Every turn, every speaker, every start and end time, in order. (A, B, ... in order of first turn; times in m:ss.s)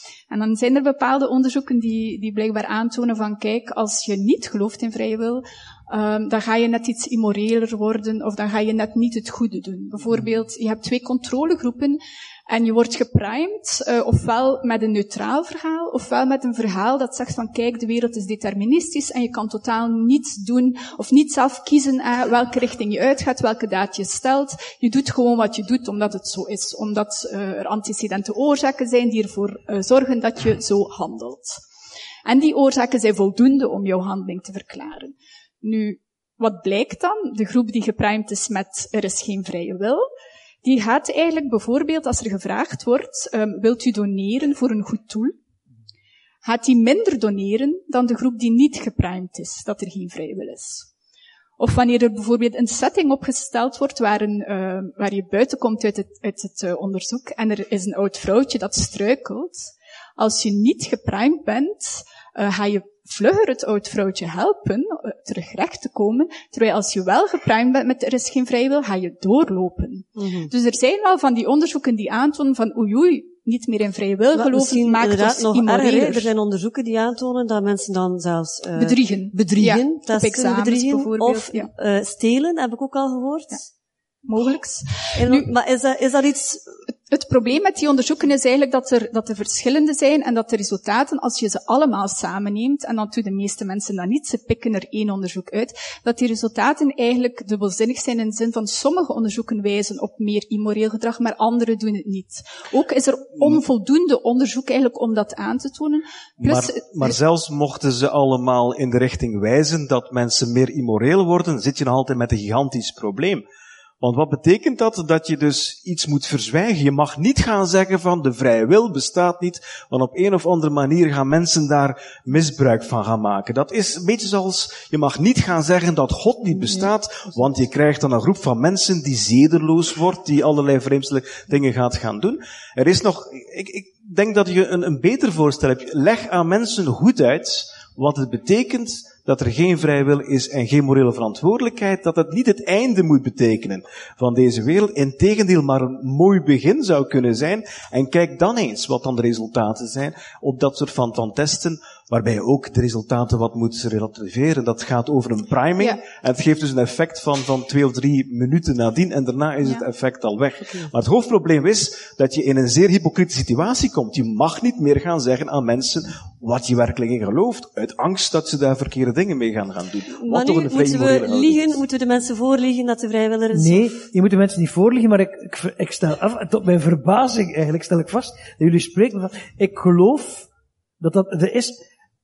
0:00.3-0:31.6 A
0:32.2-0:40.0 A
0:40.6-0:45.3 A
0:46.4-0:50.9 A
0:51.6-1:16.3 A
1:10.2-1:10.5 B
1:14.4-1:23.6 B
1:18.8-1:21.7 A
1:24.2-1:25.5 A
1:25.2-1:26.6 B
1:27.1-1:47.2 A
1:46.4-1:53.4 C
1:54.0-2:51.8 C
2:50.2-2:54.1 B
2:53.5-3:00.5 D
3:01.0-3:01.8 D